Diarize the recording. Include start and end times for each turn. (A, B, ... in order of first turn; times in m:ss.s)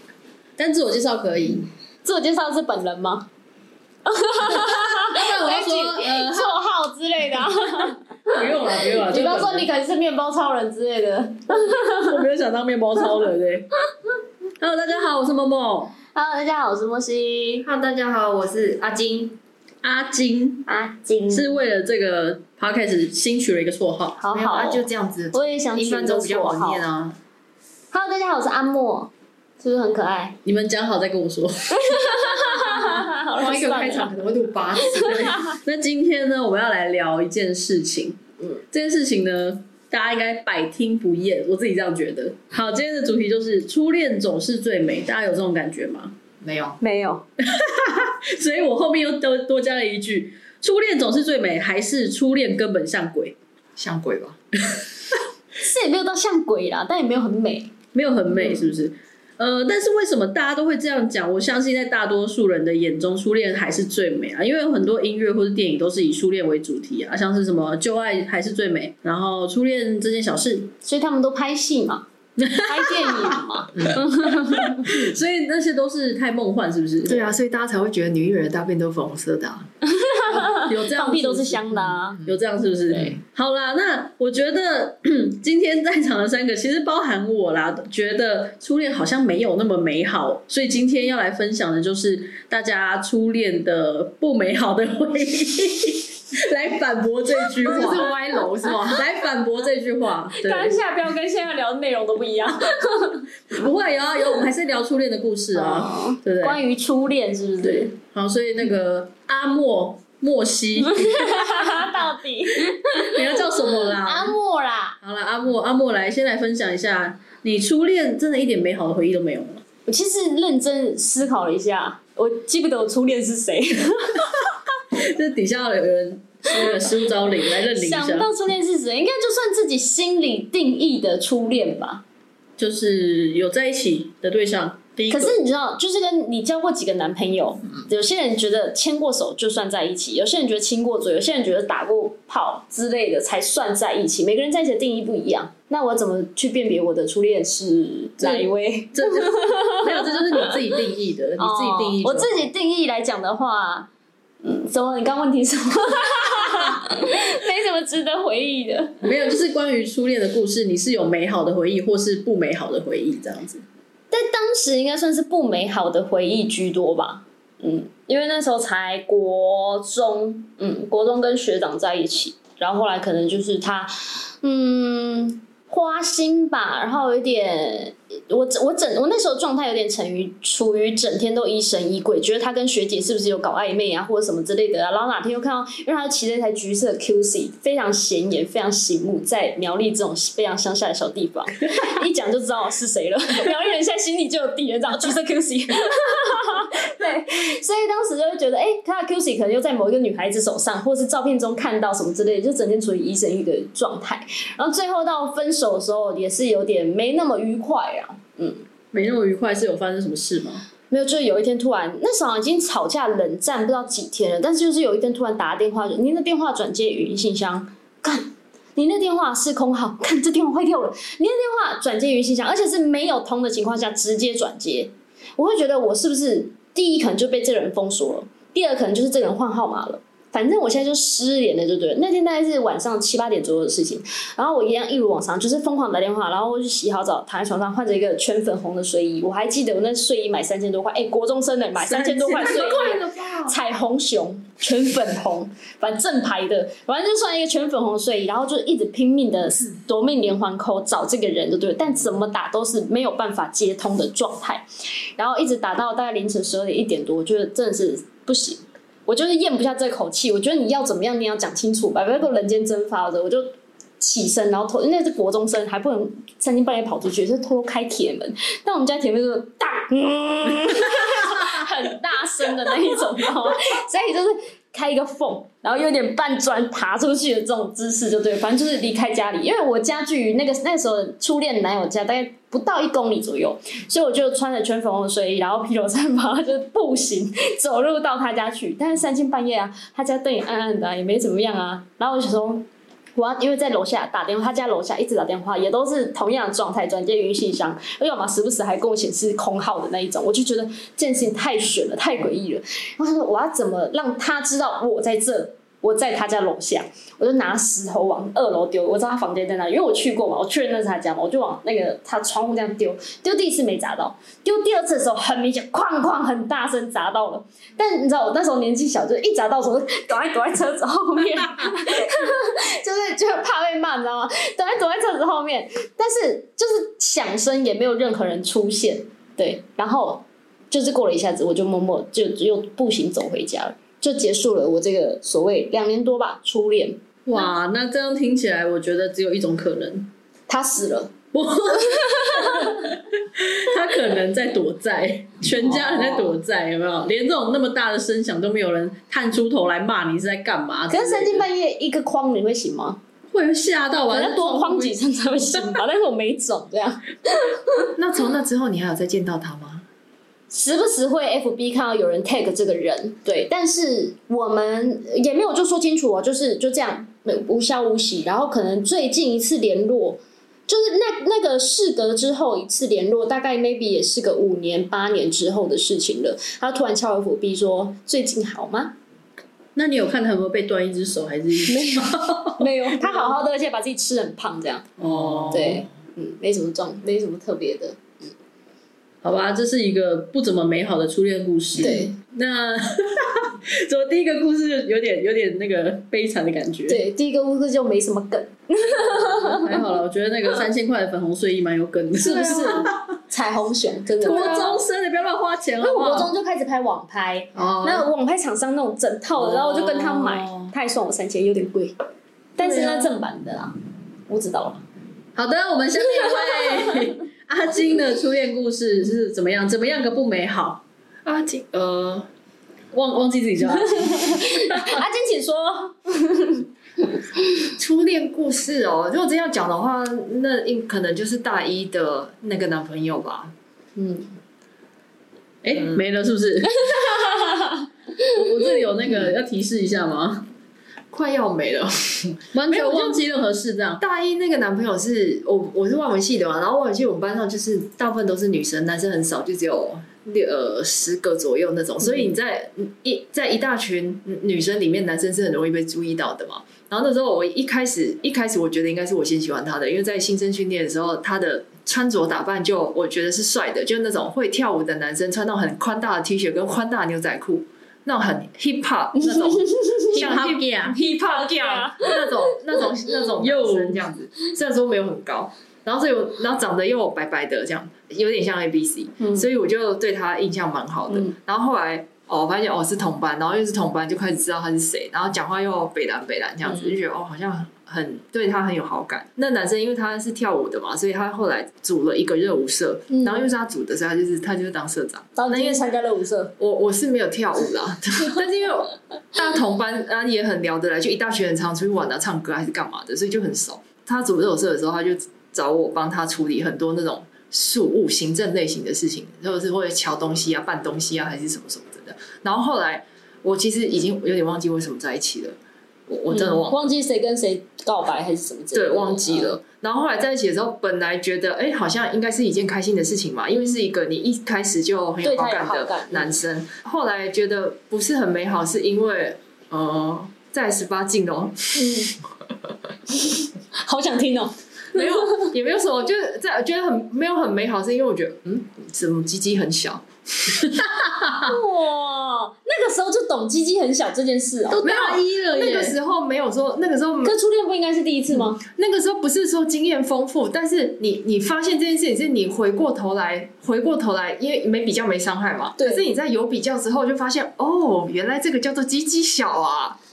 0:00.6-0:01.7 A
0:02.0-0:03.3 B
0:04.0-0:12.2 B
0:04.5-0:06.6 A
0:08.2-0:09.7 A
0:11.6-0:13.7 A
0:14.6-0:15.9 A
0:16.1-0:17.7 B
0:17.6-0:19.4 C
0:19.8-0:20.6 A
0:20.6-0:21.5 B
0:21.3-0:24.2 A
0:24.2-0:26.8 B
0:24.3-0:27.2 C
0:27.9-0:30.4 B
0:30.4-0:32.3 A
0:31.7-0:34.1 B
0:33.4-0:35.5 C
0:34.8-0:35.5 B
0:35.4-0:38.2 A
0:38.7-0:46.2 A
0:46.4-0:46.8 C
0:46.8-0:47.2 B
0:47.4-0:53.4 A
0:53.8-0:54.4 C
0:55.6-0:57.7 B
0:57.9-1:10.7 A
0:58.3-0:58.7 B
1:10.8-1:12.0 B
1:12.4-1:17.3 A
1:12.6-1:14.9 B
1:13.8-1:14.1 C
1:17.0-1:19.7 C
1:19.8-1:22.2 B
1:20.3-1:38.1 A
1:21.9-1:22.4 C
1:22.9-1:23.2 C
1:37.6-1:39.0 C
1:37.6-1:37.9 B
1:38.9-1:40.8 A
1:40.4-1:43.2 B
1:43.5-1:46.6 A
1:45.5-1:47.9 B
1:47.6-1:52.0 A
1:50.8-1:55.0 B
1:52.6-1:54.3 A
1:55.0-1:59.6 A
1:59.8-2:04.3 B
2:04.9-2:08.3 A
2:06.6-2:06.8 B
2:07.6-2:12.0 B
2:12.6-2:15.4 A
2:15.1-2:30.7 B
2:28.2-2:32.5 A
2:31.4-2:33.9 B
2:34.4-2:39.1 B
2:39.0-2:43.6 A
2:44.1-3:28.6 B
3:28.9-3:30.6 A
3:30.9-5:37.0 B
4:01.8-4:02.9 A
4:02.3-4:03.6 C
5:37.2-5:40.1 A
5:40.5-5:41.1 B
5:41.3-5:51.5 A
5:41.8-5:42.8 B
5:45.7-5:46.4 C
5:50.9-5:53.0 B
5:53.3-5:54.9 A
5:54.1-5:57.8 B
5:58.0-5:59.8 C
6:00.5-6:18.9 B
6:19.8-6:23.3 A
6:21.7-6:24.9 B
6:25.0-6:25.8 A
6:25.1-6:25.6 C
6:25.5-6:28.3 B
6:29.2-6:37.0 A
6:31.8-6:32.1 B
6:36.9-6:39.9 B
6:39.0-6:43.2 A
6:42.2-6:44.8 B
6:44.2-6:46.3 A
6:44.2-6:44.7 C
6:45.8-6:51.9 B
6:47.5-6:48.1 A
6:49.4-6:50.7 C
6:52.6-6:53.7 B
6:52.6-6:53.1 A
6:54.3-6:54.8 B
6:55.3-7:00.8 A
6:56.2-6:57.1 B
7:01.2-7:02.3 C
7:02.9-7:05.0 A
7:03.8-7:07.2 B
7:07.8-7:13.5 C
7:14.0-7:14.3 B
7:15.6-7:16.9 A
7:16.7-7:17.9 B
7:18.3-7:20.5 A
7:21.1-7:23.2 C
7:22.5-7:24.0 A
7:24.0-8:15.8 C
7:49.2-7:50.2 B
7:50.0-7:51.0 A
7:51.0-7:52.6 B
7:53.4-7:54.0 A
8:06.7-8:06.9 B
8:13.1-8:13.5 B
8:15.4-8:16.5 B
8:16.6-8:35.6 C
8:36.1-8:36.9 C
8:36.3-8:39.6 B
8:38.7-8:51.9 C
8:45.2-8:46.3 B
8:51.7-8:52.1 B
8:53.3-8:55.5 B
8:54.9-9:00.6 C
9:00.6-9:01.5 A
9:01.4-9:04.9 B
9:04.7-9:06.0 A
9:04.8-9:07.3 C
9:07.2-9:08.6 B
9:08.5-9:20.0 C
9:15.8-9:16.0 B